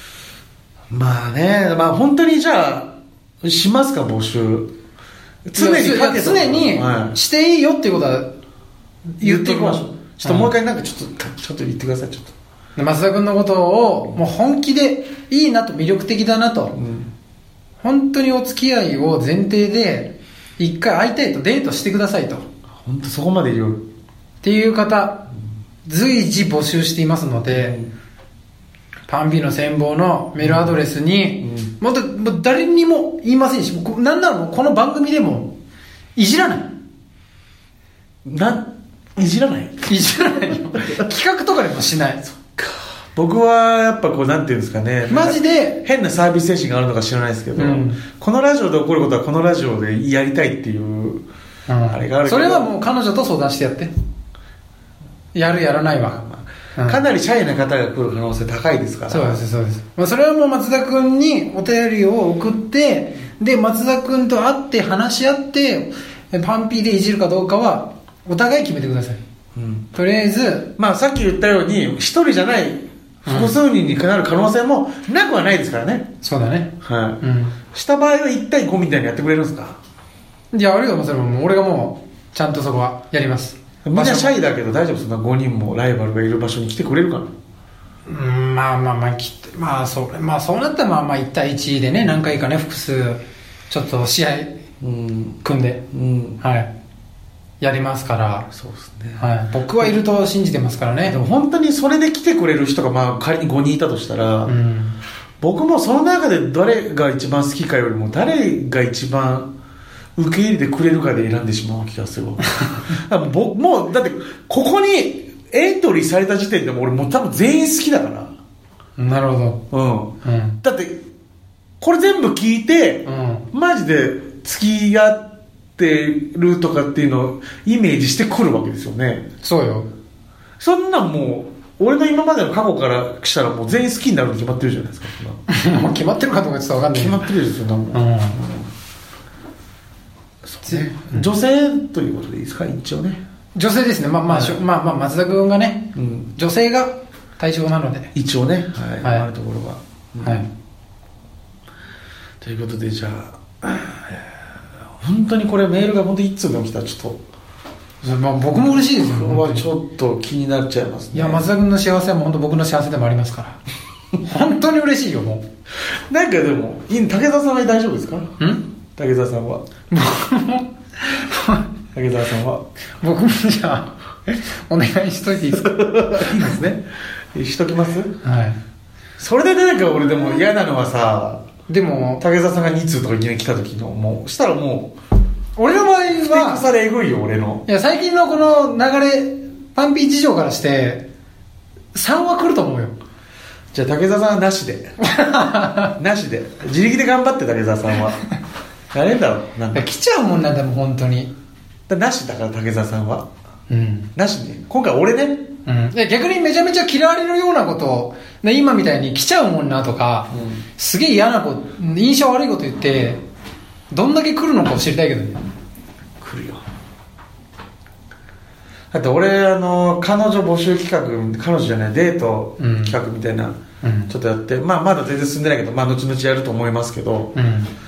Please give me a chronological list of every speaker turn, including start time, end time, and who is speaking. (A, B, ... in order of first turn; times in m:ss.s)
0:00.9-0:04.7 A
0:05.5-0:07.2 A
0:05.6-0:08.3 B
0:09.2-0:10.5 B
0:09.2-0:12.3 A
0:12.8-0:16.8 B
0:16.7-0:17.1 A
0:17.8-0:22.4 B
0:22.8-0:23.8 A
0:24.4-0:25.3 B
0:25.8-0:27.8 B
0:27.5-0:27.9 A
0:29.1-0:35.6 B
0:30.4-0:30.8 A
0:31.4-0:31.7 A
0:36.2-0:36.7 B
0:38.2-0:40.0 A
0:39.9-0:42.2 B
0:42.3-0:51.2 A
0:45.1-0:45.8 B
0:47.6-0:48.0 B
0:51.7-0:53.9 B
0:51.9-0:52.7 A
0:55.3-0:56.2 B
0:56.0-0:59.4 A
0:56.8-0:57.0 B
0:59.1-1:09.2 B
1:09.6-1:09.9 A
1:09.9-1:10.7 B
1:10.8-1:16.1 A
1:13.3-1:13.6 B
1:16.2-1:17.6 B
1:16.8-1:17.2 A
1:17.7-1:19.8 A
1:20.5-1:24.4 B
1:23.8-1:27.3 A
1:28.1-1:34.6 B
1:34.8-1:36.4 A
1:35.4-1:35.8 B
1:36.4-1:36.7 B
1:37.6-1:38.5 B
1:38.5-1:39.3 A
1:39.2-1:41.2 B
1:41.0-1:44.6 A
1:44.5-1:45.0 B
1:45.4-1:49.5 A
1:50.2-1:58.3 A
1:59.0-1:59.6 B
1:59.7-2:01.0 A
2:00.2-2:00.6 B
2:01.8-2:09.3 A
2:03.0-2:03.4 B
2:09.4-2:09.9 B
2:10.6-2:15.4 A
2:15.5-2:17.2 B
2:16.9-2:18.7 A
2:17.9-2:18.4 B
2:20.4-2:23.2 A
2:20.7-2:21.3 B
2:23.6-2:28.1 B
2:24.3-2:24.6 A
2:26.0-2:26.4 A
2:28.2-2:30.4 A
2:29.0-2:29.3 B
2:30.2-2:30.5 B
2:32.4-2:34.5 A
2:35.0-2:37.2 A
2:38.0-2:39.7 B
2:38.5-2:41.5 A
2:41.1-2:43.6 B
2:44.2-2:45.4 B
2:46.1-2:48.3 A
2:48.4-2:48.6 B
2:49.0-2:49.6 A
2:49.9-2:51.7 B
2:51.9-2:52.6 A
2:53.0-2:55.7 B
2:55.5-2:58.1 A
2:58.2-2:58.6 B
2:59.2-3:01.5 A
3:01.7-3:02.2 B
3:02.2-3:05.0 A
3:05.6-3:06.7 B
3:06.2-3:07.6 A
3:07.7-3:11.1 B
3:11.9-3:13.0 B
3:13.7-3:15.0 A
3:15.0-3:15.9 B
3:16.0-3:18.2 A
3:18.9-3:19.9 A
3:19.7-3:21.3 B
3:21.9-3:23.3 A
3:23.7-3:24.1 B
3:24.2-3:25.5 A
3:25.6-3:33.2 B
3:30.3-3:30.6 A
3:33.9-3:35.4 B
3:36.2-3:36.6 A
3:38.9-3:43.6 A
3:42.6-3:43.0 B
3:43.8-3:44.1 B
3:44.1-3:47.4 A
3:47.4-3:47.7 B